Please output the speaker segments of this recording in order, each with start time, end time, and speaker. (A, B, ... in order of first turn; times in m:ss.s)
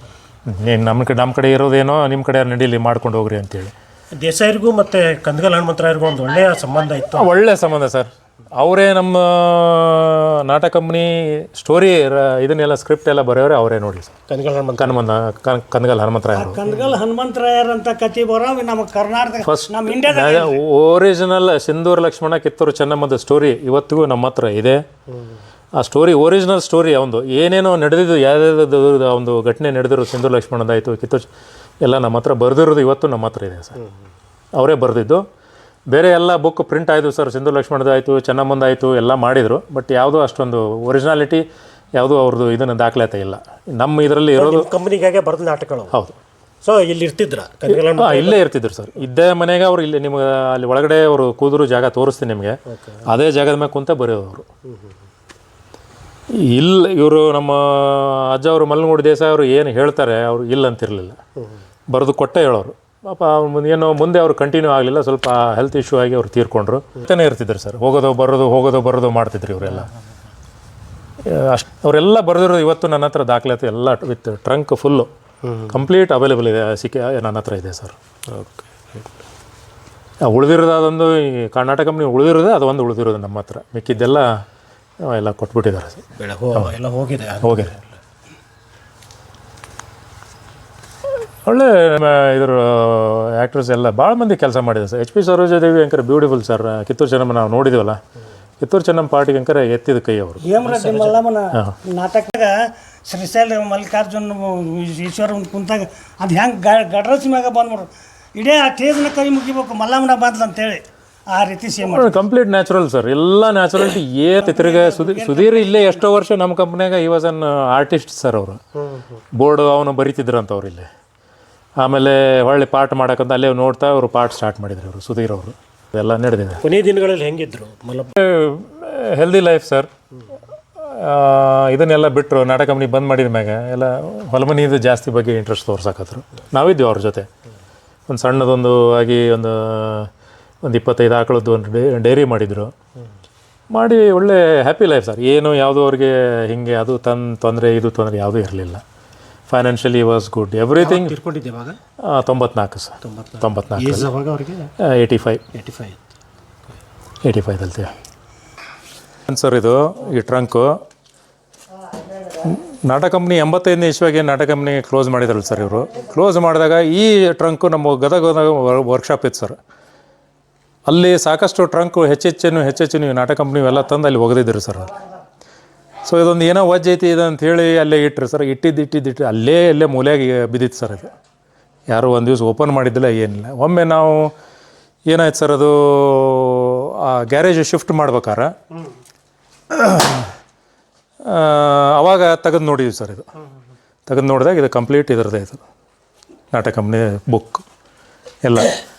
0:00.5-0:03.7 A
0:04.2-0:07.3 B
0:07.2-0:14.1 A
0:14.3-0:15.0 B
0:14.8-0:16.6 A
0:16.3-0:20.6 C
0:16.7-0:17.0 B
0:19.4-0:24.8 A
0:25.8-0:31.3 A
0:31.8-0:33.8 A
0:34.6-0:35.2 A
0:35.9-0:41.4 A
0:42.0-0:44.7 A
0:44.4-0:46.0 B
0:46.6-0:48.4 B
0:47.7-0:54.5 A
0:52.7-0:53.0 B
0:56.4-1:01.2 A
1:01.9-1:09.9 A
1:11.3-1:15.1 A
1:15.4-1:15.8 B
1:15.7-1:18.0 A
1:18.3-1:19.1 B
1:20.2-1:24.4 A
1:25.0-1:26.0 A
1:26.2-1:28.0 B
1:27.4-1:27.7 A
1:31.4-1:38.0 A
1:38.6-1:40.5 A
1:40.4-1:52.2 C
1:40.6-1:41.2 B
1:51.8-1:58.6 A
1:54.4-1:56.0 C
1:58.8-1:59.2 B
1:59.3-2:00.9 A
2:01.8-2:06.6 A
2:06.6-2:08.1 B
2:08.2-2:09.9 A
2:10.8-2:17.3 A
2:18.1-2:20.1 A
2:20.6-2:22.7 A
2:23.7-2:28.8 A
2:29.5-2:31.2 A
2:30.8-2:31.8 B
2:32.0-2:34.1 A
2:33.0-2:34.7 B
2:34.8-2:35.4 A
2:35.5-2:36.0 B
2:37.2-2:37.9 A
2:39.3-2:40.8 A
2:42.4-2:49.6 A
2:50.9-2:55.0 A
2:56.1-3:01.1 A
3:01.9-3:04.3 A
3:05.1-3:08.5 A
3:09.7-3:10.3 A
3:11.3-3:13.3 A
3:14.1-3:15.6 A
3:16.5-3:17.6 A
3:18.4-3:18.8 A